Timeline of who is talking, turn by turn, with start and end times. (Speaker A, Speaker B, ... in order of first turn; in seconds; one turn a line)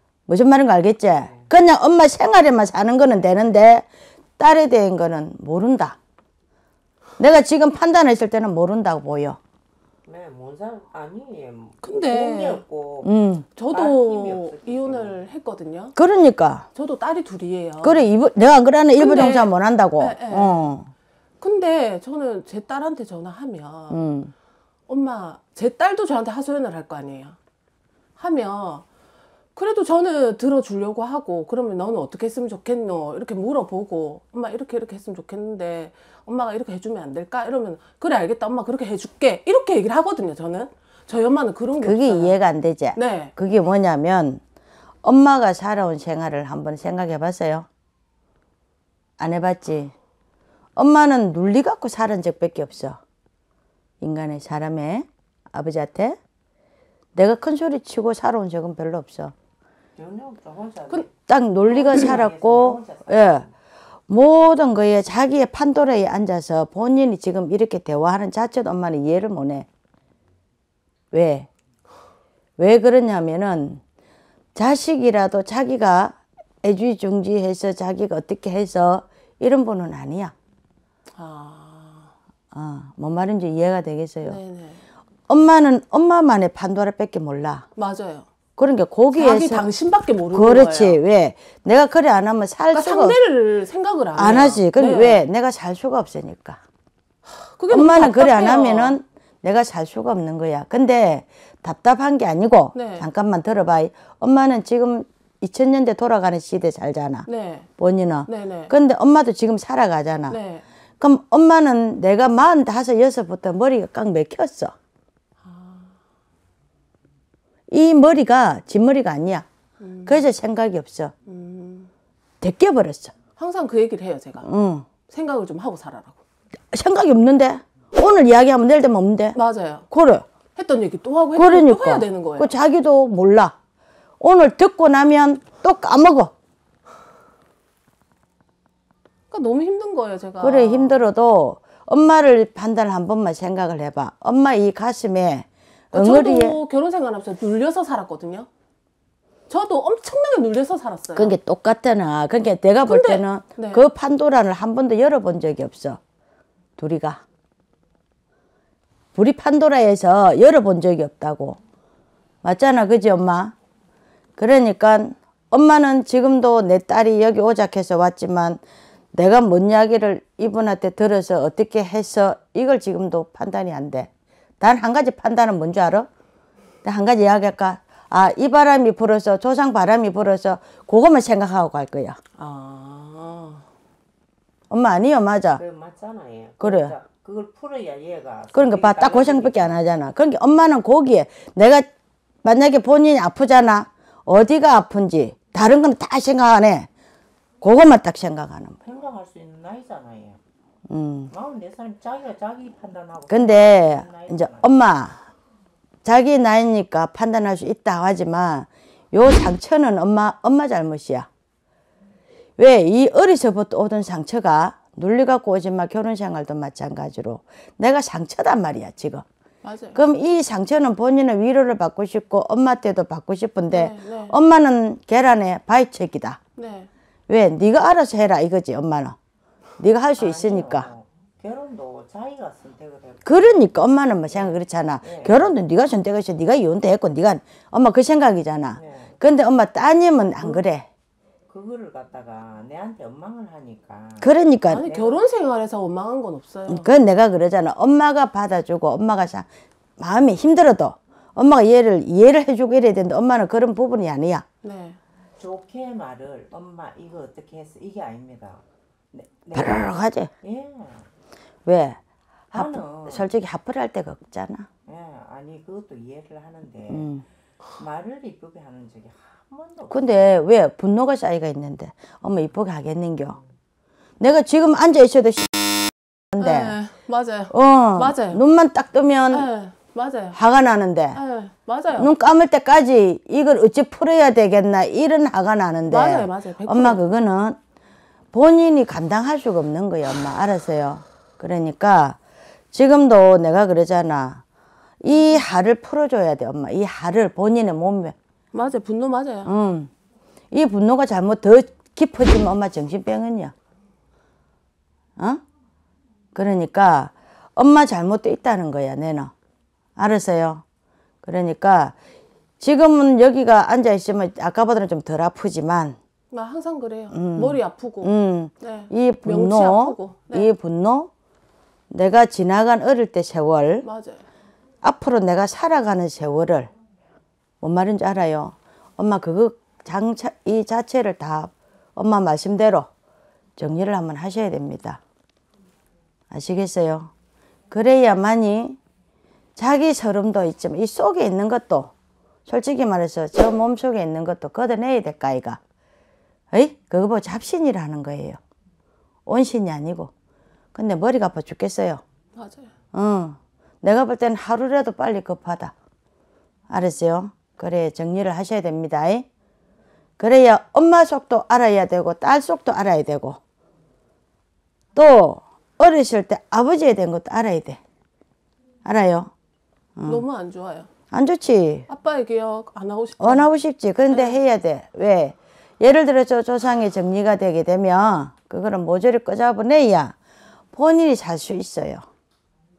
Speaker A: 0.3-3.9
Speaker B: 1.1-1.5
Speaker A: 4.4-6.0
Speaker A: 7.2-9.4
Speaker B: 10.1-15.2
Speaker C: 11.8-12.6
Speaker A: 13.0-13.4
Speaker C: 13.6-15.9
Speaker A: 15.9-16.7
Speaker C: 16.7-18.1
Speaker A: 17.8-20.9
Speaker C: 19.0-20.6
Speaker C: 21.4-24.0
Speaker A: 23.9-24.3
Speaker C: 24.9-27.4
Speaker C: 28.2-28.8
Speaker C: 29.5-42.4
Speaker A: 41.8-44.4
Speaker C: 42.9-43.3
Speaker A: 45.0-47.6
Speaker A: 49.2-49.9
Speaker A: 50.8-53.0
Speaker A: 54.0-56.2
Speaker A: 57.1-59.3
Speaker B: 60.0-63.5
Speaker A: 61.3-63.5
Speaker A: 64.1-69.7
Speaker A: 71.1-71.5
Speaker A: 72.6-73.8
Speaker A: 74.5-80.3
Speaker C: 81.1-82.1
Speaker A: 82.5-84.4
Speaker C: 84.2-84.8
Speaker A: 85.3-87.7
Speaker C: 87.8-88.3
Speaker A: 88.6-89.7
Speaker C: 89.1-91.0
Speaker A: 90.3-93.2
Speaker C: 92.7-95.2
Speaker A: 94.1-96.6
Speaker C: 97.3-99.0
Speaker A: 97.7-107.3
Speaker C: 102.7-103.0
Speaker C: 107.2-107.7
Speaker A: 107.8-110.4
Speaker C: 108.2-108.7
Speaker C: 110.3-110.6
Speaker A: 111.0-114.7
Speaker C: 115.4-115.9
Speaker A: 117.7-119.4
Speaker C: 119.8-120.3
Speaker A: 120.0-121.1
Speaker C: 121.2-121.9
Speaker A: 122.4-123.1
Speaker C: 123.4-124.5
Speaker A: 124.4-124.8
Speaker C: 125.1-126.2
Speaker A: 126.7-129.4
Speaker C: 129.3-129.9
Speaker A: 129.9-130.2
Speaker C: 130.5-132.5
Speaker A: 131.3-133.5
Speaker A: 134.2-136.3
Speaker C: 139.3-141.0
Speaker A: 140.4-146.6
Speaker C: 145.9-148.5
Speaker C: 149.5-151.3
Speaker A: 151.2-156.0
Speaker C: 152.8-153.8
Speaker A: 156.8-157.2
Speaker A: 159.1-161.6
Speaker A: 162.4-163.5
Speaker A: 164.4-168.6
Speaker A: 169.1-176.1
Speaker A: 176.8-182.2
Speaker C: 182.4-183.6
Speaker A: 184.7-185.6
Speaker B: 185.6-189.8
Speaker A: 186.6-186.9
Speaker A: 188.5-191.9
Speaker A: 192.4-196.9
Speaker A: 197.6-198.8
Speaker B: 198.8-200.4
Speaker A: 200.9-201.3
Speaker B: 201.3-204.7
Speaker A: 203.3-205.2
Speaker A: 206.0-211.3
Speaker A: 212.6-219.2
Speaker C: 219.6-220.0
Speaker A: 219.9-226.4
Speaker C: 223.7-224.3
Speaker C: 226.6-226.9
Speaker A: 227.3-229.1
Speaker A: 229.8-230.9
Speaker B: 230.2-233.7
Speaker A: 233.2-240.9
Speaker B: 234.3-235.5
Speaker B: 238.8-239.2
Speaker B: 241.5-244.3
Speaker A: 244.2-244.9
Speaker C: 244.7-246.9
Speaker B: 244.8-245.2
Speaker A: 246.7-249.5
Speaker A: 250.0-254.4
Speaker C: 254.6-255.0
Speaker B: 255.4-261.1
Speaker A: 259.5-260.3
Speaker A: 261.6-262.0
Speaker B: 262.5-263.3
Speaker A: 262.5-264.7
Speaker B: 264.9-267.1
Speaker A: 266.9-267.2
Speaker B: 267.8-270.3
Speaker A: 269.9-273.4
Speaker A: 274.2-275.6
Speaker A: 276.3-276.8
Speaker C: 276.4-278.4
Speaker A: 277.5-279.5
Speaker C: 279.3-280.4
Speaker A: 280.3-281.2
Speaker C: 281.1-282.1
Speaker A: 281.9-287.6
Speaker C: 285.9-287.0
Speaker A: 288.3-292.2
Speaker A: 292.7-294.4
Speaker A: 295.0-298.1
Speaker C: 298.5-299.5
Speaker A: 299.4-299.9
Speaker A: 300.5-303.5
Speaker A: 306.3-309.3
Speaker A: 310.0-310.6
Speaker A: 311.2-311.9
Speaker A: 312.6-315.9
Speaker C: 316.3-320.5
Speaker A: 317.1-321.1
Speaker A: 321.9-323.9
Speaker C: 323.8-324.2
Speaker A: 324.8-326.7
Speaker A: 327.6-332.9
Speaker A: 333.6-335.0
Speaker A: 336.3-337.1
Speaker A: 337.7-338.8
Speaker A: 339.6-341.9
Speaker A: 342.5-345.6
Speaker A: 346.5-348.4
Speaker A: 349.2-350.1
Speaker A: 350.7-352.0
Speaker C: 352.4-352.7
Speaker A: 352.9-355.7
Speaker A: 356.7-359.2
Speaker A: 360.2-363.4
Speaker A: 364.9-367.8
Speaker A: 368.8-369.3
Speaker A: 370.0-370.2
Speaker C: 370.0-370.9
Speaker A: 371.1-371.9
Speaker C: 371.9-373.5
Speaker A: 373.2-380.1
Speaker C: 374.1-374.4
Speaker A: 380.7-382.0